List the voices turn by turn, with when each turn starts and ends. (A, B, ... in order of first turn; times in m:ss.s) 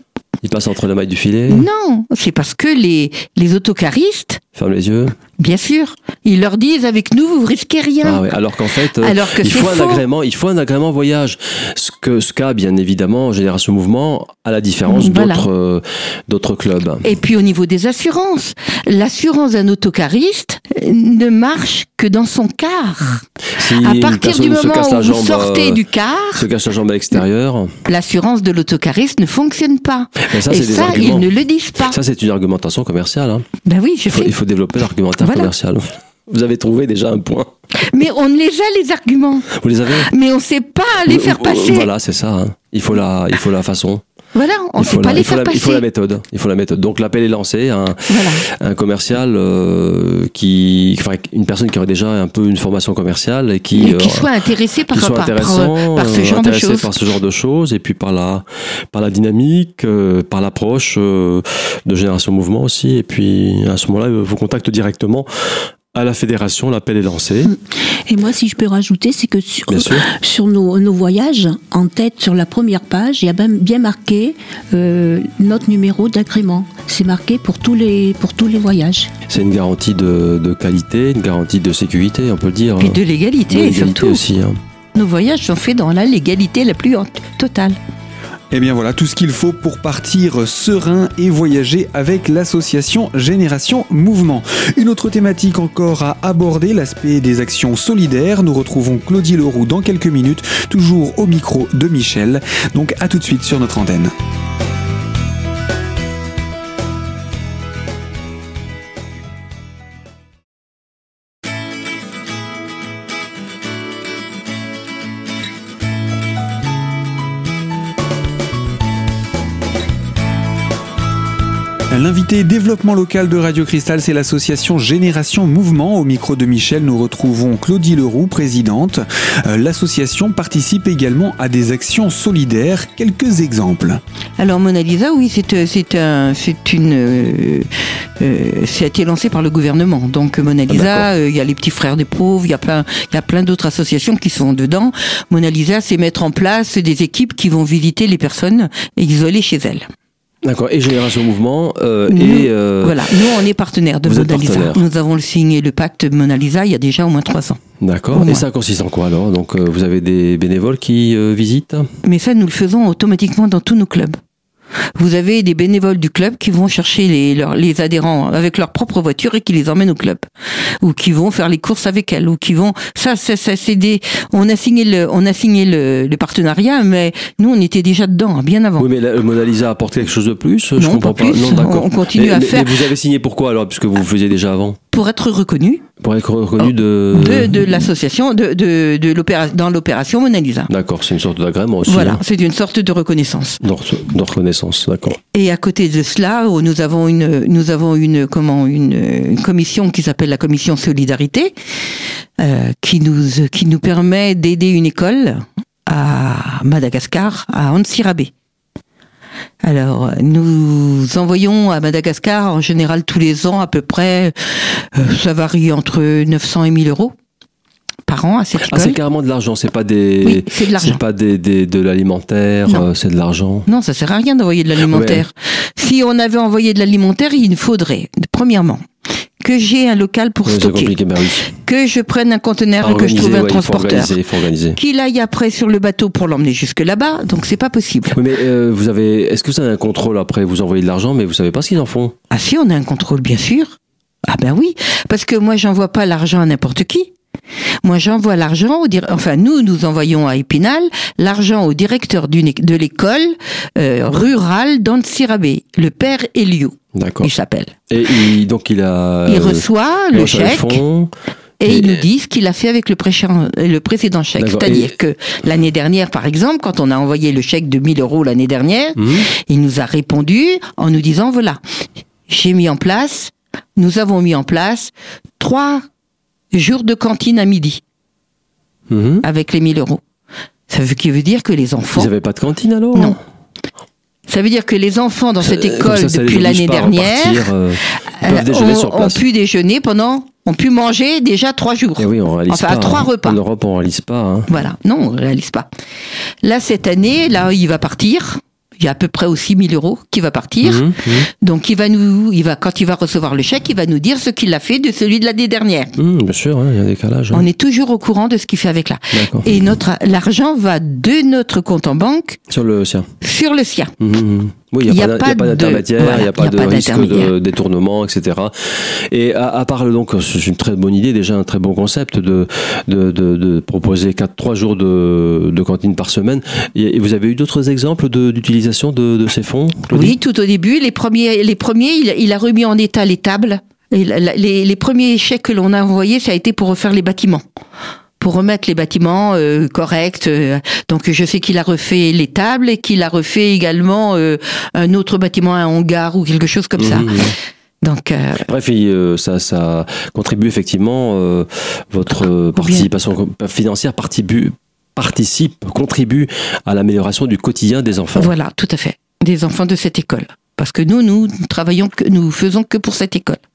0:00.4-0:01.7 A
0:01.5-0:04.4 B
0:04.6-0:05.2 A
0:05.4-0:08.3 B
0:08.0-0:17.1 A
0:09.0-0:10.0 B
0:14.9-0:15.5 B
0:17.0-0:26.5 B
0:23.6-0:25.8 A
0:26.4-0:27.7 A
0:27.9-0:32.0 B
0:30.3-0:31.3 A
0:31.8-0:33.4 A
0:33.6-0:34.4 B
0:34.1-0:37.5 A
0:35.2-0:35.5 B
0:37.8-0:41.9 B
0:39.6-0:40.1 A
0:41.1-0:44.0 A
0:44.3-0:45.8 B
0:44.8-0:54.3 A
0:48.1-0:48.4 B
0:53.7-0:56.9 B
0:54.9-1:05.3 A
1:05.9-1:07.5 A
1:08.1-1:19.1 C
1:09.7-1:10.1 A
1:19.3-1:24.6 A
1:22.8-1:24.2 B
1:25.0-1:27.8 B
1:28.5-1:44.1 D
2:01.9-2:14.0 D
2:14.4-2:17.7 B
2:18.2-2:29.8 B
2:20.7-2:21.1 A
2:30.4-2:33.0 A
2:32.1-2:37.6 B
2:34.0-2:34.8 A
2:37.8-2:41.9 A
2:38.1-2:38.5 B
2:42.0-2:44.2 B
2:45.0-2:50.2 B
2:50.8-2:58.9 B
2:58.8-3:04.8 A
3:00.8-3:02.9 B
3:04.9-3:05.8 B
3:06.0-3:07.8 A
3:06.6-3:10.7 B
3:10.7-3:12.2 A
3:11.9-3:13.6 B
3:13.6-3:15.2 A
3:15.3-3:21.5 B
3:22.4-3:28.3 B
3:29.6-3:37.1 B
3:38.1-3:39.0 B
3:38.7-3:43.7 A
3:40.2-3:41.0 B
3:43.7-3:48.8 B
3:44.8-3:45.2 A
3:49.4-3:51.0 B
3:50.5-3:51.5 A
3:51.5-3:54.2 B
3:52.8-3:54.8 A
3:54.8-3:58.2 B
3:58.1-4:02.1 A
4:02.3-4:07.1 B
4:07.8-4:17.8 B
4:17.0-4:17.3 A
4:17.9-4:21.1 A
4:19.3-4:20.8 B
4:21.6-4:31.6 B
4:21.7-4:22.0 A
4:24.4-4:24.9 A
4:29.0-4:29.3 A
4:32.3-4:35.8 B
4:36.5-4:37.8 B
4:38.9-4:39.2 A
4:39.2-4:40.0 B
4:40.7-4:42.1 B
4:42.0-4:43.2 A
4:44.3-4:47.5 B
4:45.4-4:49.2 A
4:48.1-4:53.4 B
4:52.0-4:54.5 A
4:54.5-4:55.7 B
4:56.4-5:05.9 B
5:00.6-5:01.3 A
5:06.0-5:07.4 A
5:07.3-5:12.4 B
5:09.1-5:09.5 A
5:12.5-5:13.1 A
5:13.2-5:13.9 B
5:14.0-5:30.2 A
5:14.9-5:17.3 B
5:29.9-5:37.4 B
5:38.2-5:47.2 B
5:46.8-5:47.4 A
5:47.8-5:48.4 B
5:48.4-5:58.3 A
5:52.5-5:52.9 B
5:58.2-6:03.4 B